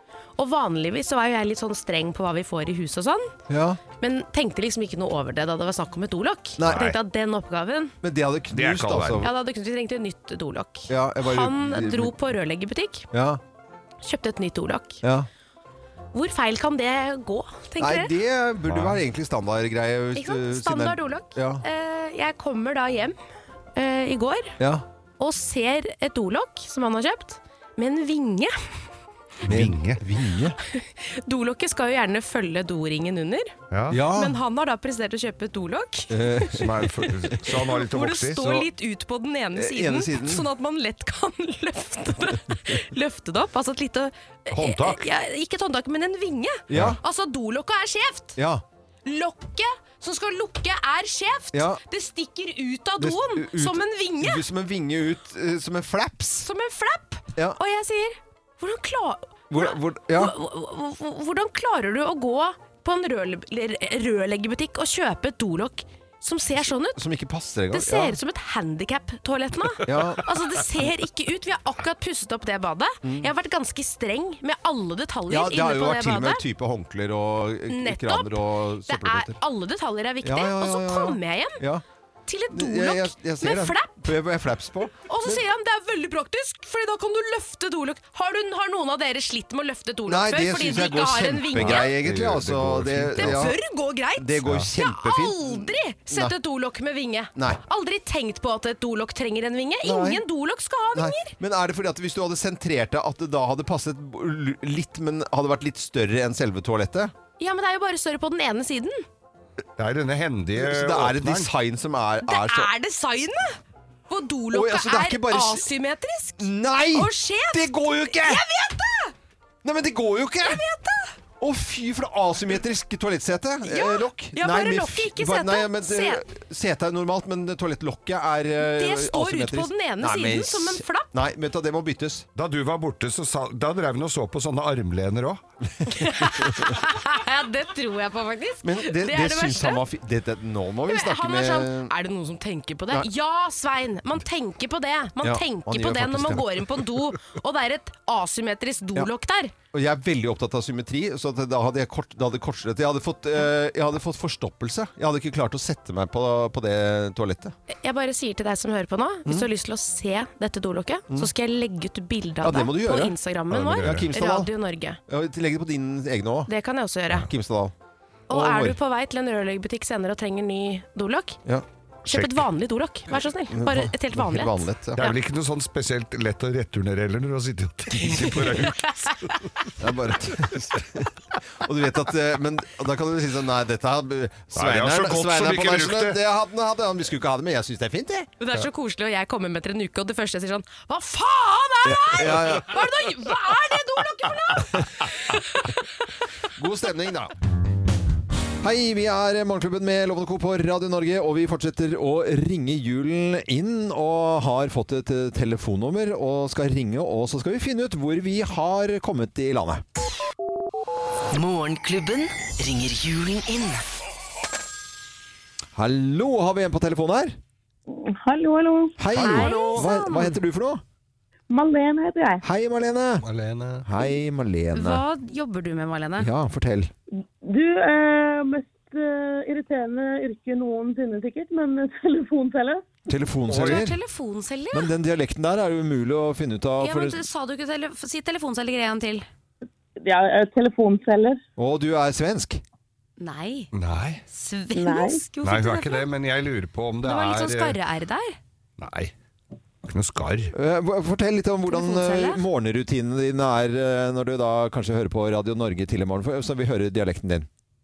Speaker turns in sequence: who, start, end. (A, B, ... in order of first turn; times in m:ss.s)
0:00.4-0:03.3 A
0:03.5-0:03.8 B
0:04.0-0:07.9 A
0:06.6-0:07.0 B
0:08.0-0:09.3 B
0:08.5-0:09.3 C
0:09.2-0:13.1 A
0:10.9-0:12.2 B
0:13.1-0:13.4 B
0:14.0-0:15.0 A
0:16.1-0:18.1 A
0:17.8-0:21.6 B
0:18.7-0:19.0 C
0:20.2-0:23.2 A
0:23.8-0:24.5 A
0:24.6-0:24.8 B
0:25.2-0:28.6 A
0:29.4-0:30.0 C
0:29.5-0:30.6 B
0:30.7-0:33.5 A
0:33.7-0:34.0 C
0:33.9-0:34.4 B
0:34.0-0:36.5 A
0:36.1-0:37.5 B
0:36.5-0:38.7 C
0:37.8-0:48.4 A
0:39.5-0:40.5 B
0:44.5-0:45.0 C
0:46.7-0:47.0 B
0:48.4-0:48.6 B
0:49.0-0:54.4 A
0:51.5-0:51.8 B
0:53.0-0:56.5 B
0:56.4-1:07.0 A
0:59.5-1:00.4 B
1:06.9-1:08.2 B
1:07.7-1:16.4 A
1:09.8-1:10.3 B
1:13.0-1:13.3 B
1:15.3-1:19.4 B
1:17.7-1:21.6 A
1:20.2-1:21.8 B
1:22.3-1:24.0 A
1:22.5-1:25.4 B
1:25.1-1:32.0 A
1:30.1-1:33.6 B
1:31.6-1:33.6 C
1:33.2-1:41.4 A
1:34.2-1:36.3 B
1:39.8-1:40.2 B
1:40.9-1:47.1 B
1:47.4-1:49.0 A
1:49.8-1:51.5 C
1:50.6-1:52.7 B
1:52.2-1:53.6 A
1:54.1-1:59.1 A
1:54.5-1:55.7 B
1:56.4-1:58.4 B
1:59.6-2:00.6 B
2:00.4-2:01.1 A
2:01.4-2:12.3 B
2:03.6-2:06.2 A
2:08.6-2:11.1 A
2:12.4-2:15.4 C
2:15.8-2:16.7 B
2:15.9-2:19.8 A
2:18.6-2:21.9 B
2:20.9-2:29.5 A
2:25.2-2:26.7 B
2:29.7-2:37.6 B
2:37.8-2:45.0 A
2:42.4-2:44.5 B
2:43.5-2:44.1 C
2:45.1-2:46.5 B
2:46.5-2:47.3 A
2:47.2-2:47.7 B
2:48.3-2:51.4 A
2:48.3-2:48.8 B
2:52.1-2:52.5 C
2:52.1-2:55.1 A
2:53.5-2:55.1 B
2:55.0-2:59.3 C
2:58.8-2:59.1 A
2:59.8-3:08.3 B
3:04.5-3:06.2 C
3:08.4-3:15.8 A
3:11.8-3:12.8 B
3:16.6-3:17.3 B
3:18.6-3:29.8 B
3:31.3-3:33.8 D
3:35.8-3:37.4 B
3:37.9-3:39.0 E
3:39.0-3:40.8 B
3:39.1-3:40.4 A
3:39.2-3:39.5 C
3:41.5-3:42.4 E
3:42.4-3:43.2 B
3:43.2-3:43.9 C
3:43.8-3:45.0 B
3:44.7-3:46.3 A
3:46.2-3:46.9 B
3:47.2-3:52.8 E
3:53.1-3:54.0 B
3:53.5-3:53.9 C
3:53.5-3:54.9 A
3:54.7-3:57.2 B
3:56.8-3:59.3 A
4:00.0-4:01.4 E
4:01.6-4:02.6 B
4:03.2-4:03.7 A
4:03.7-4:04.2 C
4:04.3-4:06.1 A
4:04.7-4:05.2 E
4:05.4-4:07.8 C
4:07.0-4:08.4 A
4:08.8-4:09.1 C
4:09.8-4:10.5 C
4:10.5-4:17.5 B
4:11.7-4:12.4 A